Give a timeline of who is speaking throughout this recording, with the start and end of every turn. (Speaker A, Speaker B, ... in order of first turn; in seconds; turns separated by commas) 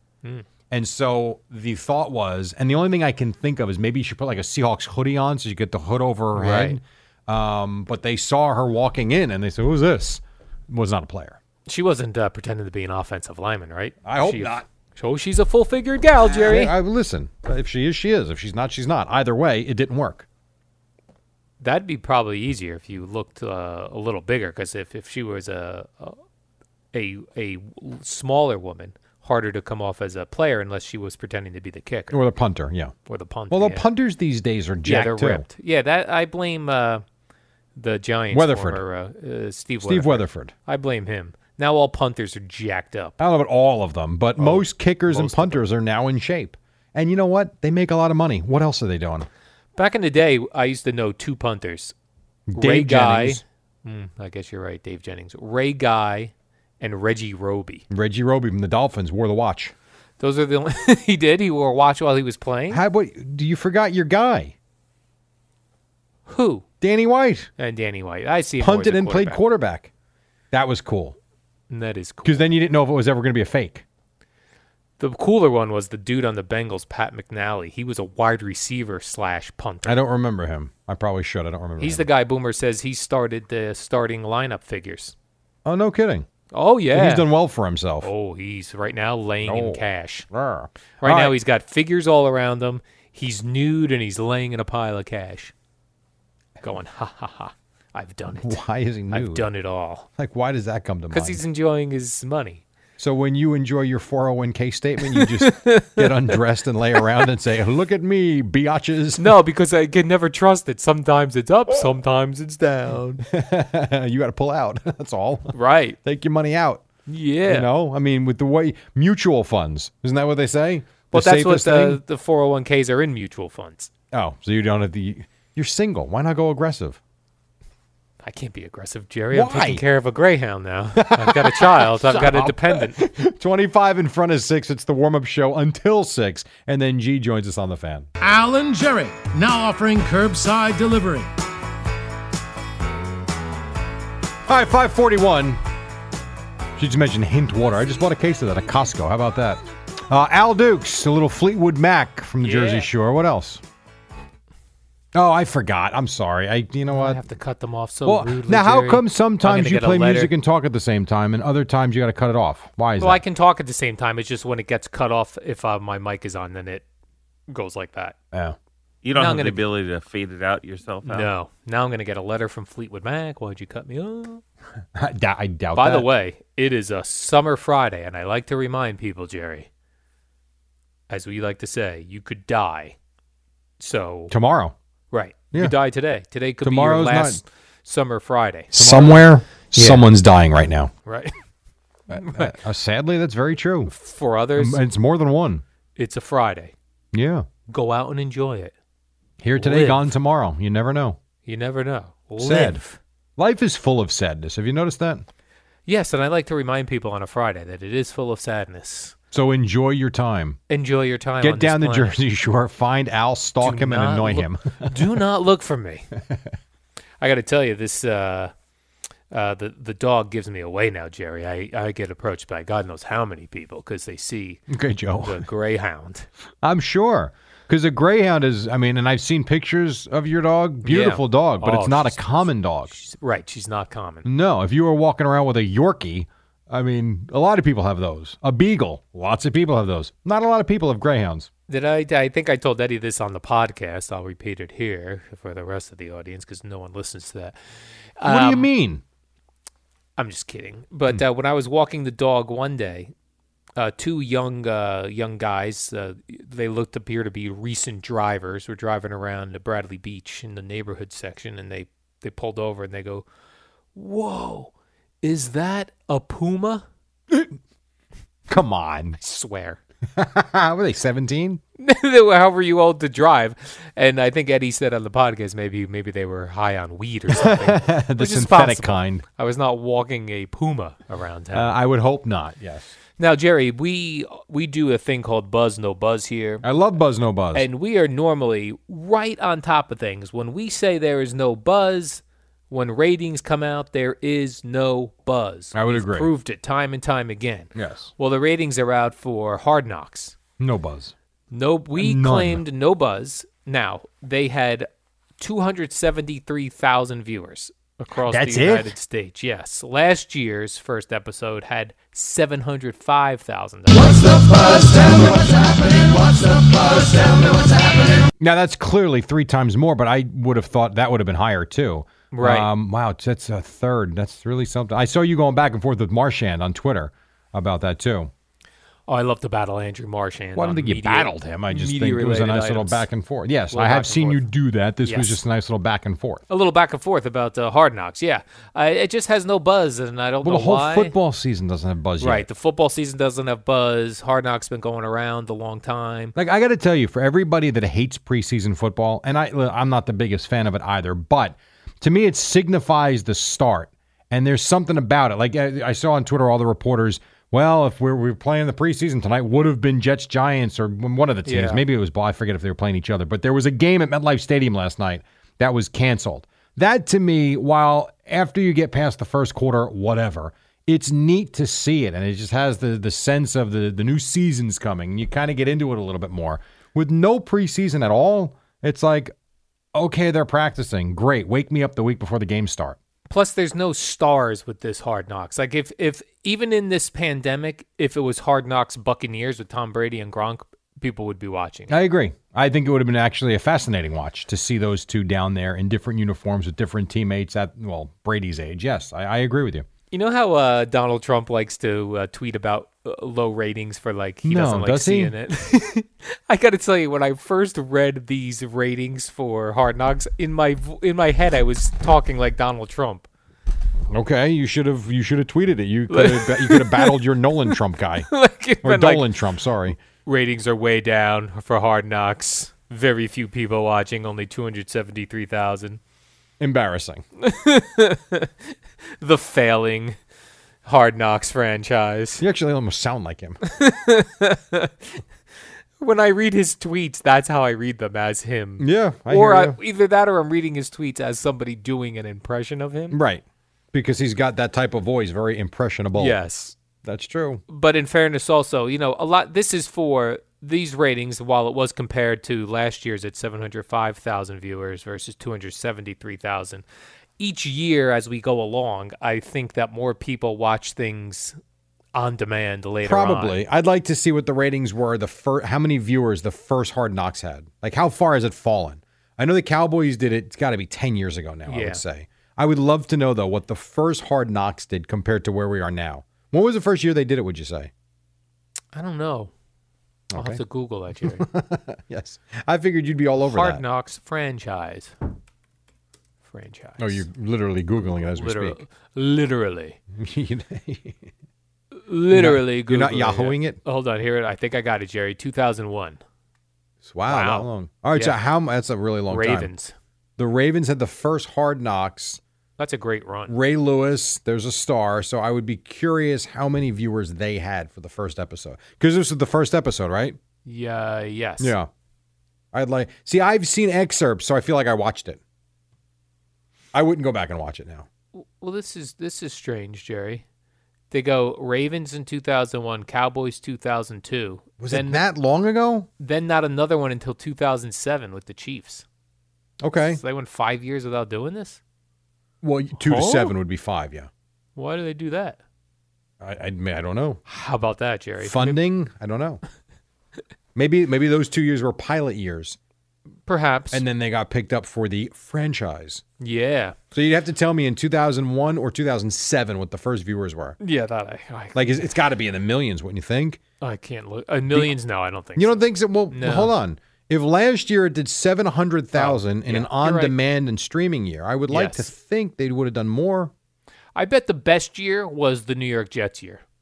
Speaker A: 0.7-11.4, Speaker B: 6.3-6.8, Speaker B: 11.7-16.8, Speaker A: 14.0-14.6, Speaker A: 16.3-20.3, Speaker B: 21.6-26.2, Speaker B: 26.9-32.2, Speaker A: 32.1-32.9, Speaker B: 33.1-33.9, Speaker A: 33.5-35.5, Speaker B: 34.8-37.0, Speaker B: 37.8-43.2, Speaker A: 38.3-38.8, Speaker A: 39.8-40.5, Speaker A: 43.2-49.3, Speaker B: 44.4-45.6, Speaker B: 49.8-51.9, Speaker A: 52.5-53.4, Speaker B: 52.5-57.9, Speaker A: 57.9-59.7, Speaker B: 60.2-62.8, Speaker A: 62.7-64.5, Speaker B: 66.3-66.6, Speaker A: 66.8-67.5, Speaker B: 67.6-69.4, Speaker A: 68.6-69.9, Speaker A: 70.5-71.2, Speaker B: 71.7-72.5, Speaker A: 72.2-73.8, Speaker B: 75.0-80.0, Speaker A: 79.8-82.1, Speaker B: 81.8-85.1, Speaker A: 85.6-86.3, Speaker B: 86.5-87.3, Speaker A: 86.9-88.1, Speaker B: 88.0-90.3, Speaker A: 89.5-91.4, Speaker B: 91.0-95.5, Speaker B: 96.6-98.6, Speaker A: 98.3-99.5, Speaker B: 99.1-100.1, Speaker A: 100.2-101.4, Speaker B: 101.1-102.6, Speaker A: 103.0-109.3, Speaker B: 105.1-106.4, Speaker B: 109.2-113.2, Speaker A: 113.2-116.8, Speaker B: 115.5-116.0, Speaker B: 117.1-117.7, Speaker A: 117.5-122.0, Speaker B: 121.1-123.9, Speaker A: 124.1-127.0, Speaker B: 128.2-133.0, Speaker A: 129.3-129.8, Speaker A: 131.0-138.1, Speaker C: 138.2-141.3, Speaker A: 144.5-145.6, Speaker A: 146.8-153.6, Speaker B: 152.4-152.9, Speaker A: 155.1-157.2, Speaker B: 156.9-160.3, Speaker A: 158.1-163.2, Speaker B: 163.0-166.8, Speaker B: 167.5-168.1, Speaker A: 168.3-168.6, Speaker D: 169.0-171.3, Speaker B: 169.1-169.6, Speaker B: 171.0-174.4, Speaker A: 174.9-176.1, Speaker B: 175.7-179.7, Speaker B: 181.1-183.0, Speaker B: 183.8-184.3, Speaker A: 184.3-184.8, Speaker B: 185.1-190.1, Speaker A: 186.6-187.4, Speaker A: 188.7-190.9, Speaker B: 191.1-191.3, Speaker A: 192.1-193.9, Speaker B: 192.1-192.6, Speaker B: 193.9-194.8, Speaker A: 194.6-195.6, Speaker B: 196.0-196.7, Speaker A: 197.1-197.5, Speaker B: 197.7-198.7, Speaker A: 199.4-201.2, Speaker B: 199.6-200.1, Speaker B: 201.4-203.0, Speaker A: 202.4-202.8, Speaker A: 203.4-205.3, Speaker B: 205.9-209.2, Speaker A: 209.3-210.6, Speaker B: 210.7-212.2, Speaker A: 211.4-214.9, Speaker B: 213.6-216.1, Speaker B: 217.2-218.5, Speaker B: 219.3-224.6, Speaker A: 224.7-225.4, Speaker B: 225.2-226.3, Speaker A: 226.6-232.9, Speaker B: 230.8-234.3, Speaker A: 234.2-241.5, Speaker B: 241.7-247.6, Speaker B: 248.2-248.7, Speaker A: 248.2-249.0, Speaker B: 250.2-253.1, Speaker B: 253.8-263.2, Speaker B: 263.9-266.9, Speaker A: 268.5-269.2, Speaker B: 269.2-269.8, Speaker A: 270.1-271.6, Speaker B: 271.8-281.8, Speaker A: 277.3-279.2, Speaker A: 281.5-282.9, Speaker B: 283.2-286.6, Speaker A: 286.6-287.7, Speaker B: 287.5-300.4, Speaker A: 295.7-296.3, Speaker A: 297.8-298.1, Speaker A: 300.6-301.1, Speaker B: 301.5-304.9, Speaker A: 302.0-302.6, Speaker B: 305.4-317.8, Speaker A: 308.3-308.9, Speaker A: 318.4-328.3, Speaker B: 322.3-322.7, Speaker B: 329.1-333.1, Speaker A: 330.6-336.4, Speaker B: 333.7-334.5, Speaker B: 335.0-335.4, Speaker B: 336.5-341.1, Speaker A: 340.4-342.5, Speaker B: 342.2-346.4, Speaker A: 346.4-379.3, Speaker B: 361.4-361.8, Speaker A: 379.9-383.0, Speaker B: 383.3-391.9, Speaker A: 391.9-399.9, Speaker B: 400.1-413.3, Speaker A: 404.4-405.3, Speaker A: 414.1-418.3, Speaker B: 416.1-417.8, Speaker B: 418.3-419.3, Speaker A: 418.8-420.0, Speaker B: 420.2-426.0, Speaker A: 426.6-427.2, Speaker B: 427.4-428.5, Speaker B: 429.2-430.2, Speaker B: 430.9-432.4, Speaker A: 432.4-433.6, Speaker B: 433.6-435.2, Speaker B: 436.0-443.2, Speaker A: 438.8-439.8, Speaker A: 443.1-446.4, Speaker B: 446.1-446.8, Speaker A: 447.0-447.6, Speaker B: 447.7-456.9, Speaker B: 457.4-461.6, Speaker B: 462.1-463.6, Speaker A: 463.0-477.9, Speaker B: 471.7-472.0, Speaker B: 478.9-479.5, Speaker A: 480.3-480.6, Speaker B: 480.4-481.5, Speaker A: 481.2-483.8, Speaker B: 483.4-485.1, Speaker B: 486.5-487.2, Speaker A: 487.0-488.8, Speaker B: 488.0-490.0, Speaker A: 490.1-491.3, Speaker B: 492.0-496.2, Speaker A: 492.3-493.8, Speaker A: 497.0-499.7, Speaker B: 497.3-498.4, Speaker B: 499.3-499.9, Speaker A: 500.4-502.4, Speaker B: 502.8-503.5, Speaker A: 503.5-510.4, Speaker B: 510.6-511.8, Speaker A: 511.6-511.9, Speaker A: 512.7-515.4, Speaker A: 516.9-518.1, Speaker B: 518.3-520.4, Speaker B: 521.1-525.2, Speaker A: 524.8-526.1, Speaker B: 526.2-529.0, Speaker A: 529.8-530.2, Speaker B: 530.0-531.8, Speaker A: 532.6-534.3, Speaker B: 532.9-533.5, Speaker B: 534.8-535.6, Speaker A: 536.4-537.4, Speaker B: 537.5-538.8, Speaker A: 538.4-539.6, Speaker A: 540.8-542.8, Speaker B: 543.5-544.0, Speaker A: 543.9-546.2, Speaker B: 546.4-547.0, Speaker A: 547.1-550.8, Speaker B: 550.8-552.1, Speaker A: 551.8-553.6, Speaker B: 553.8-556.7, Speaker A: 555.6-563.5, Speaker B: 559.1-560.4, Speaker B: 561.7-562.1, Speaker B: 564.1-566.6